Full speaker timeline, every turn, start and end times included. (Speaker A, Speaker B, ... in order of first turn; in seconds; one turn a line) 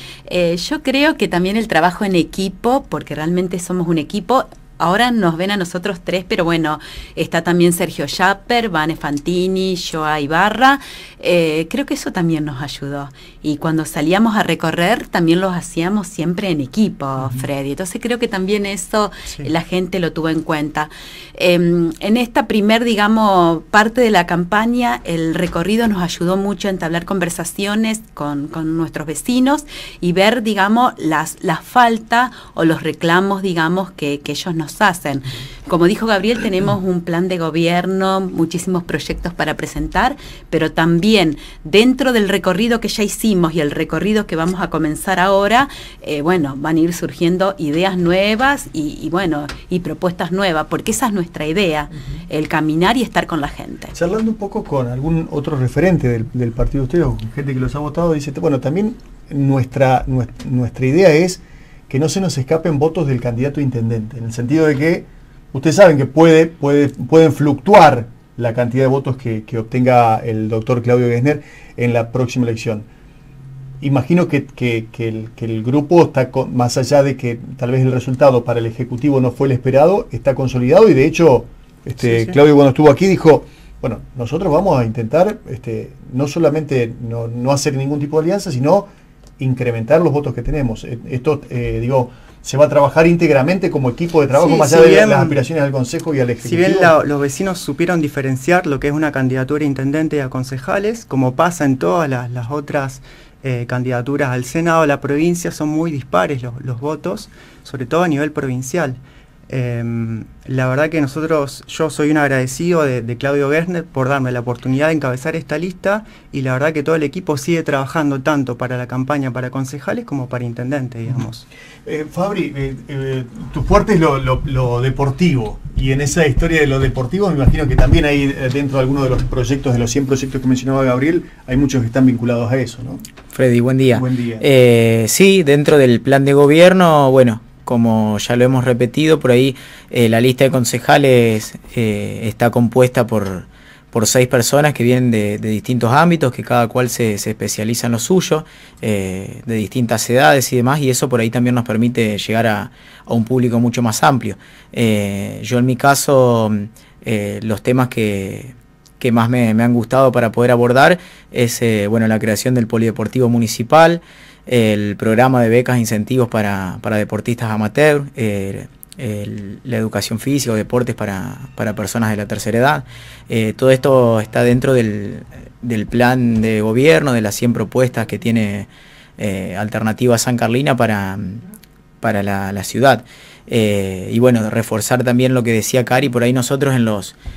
Speaker A: 0.3-53.9
Speaker B: 53.9-72.9
Speaker B: 73.8-88.9
Speaker C: 82.0-82.3
Speaker B: 89.4-96.9
Speaker C: 94.3-95.4
Speaker C: 96.4-121.5
Speaker B: 121.8-133.0
Speaker D: 133.3-181.4
Speaker B: 133.9-134.4
Speaker D: 182.0-187.2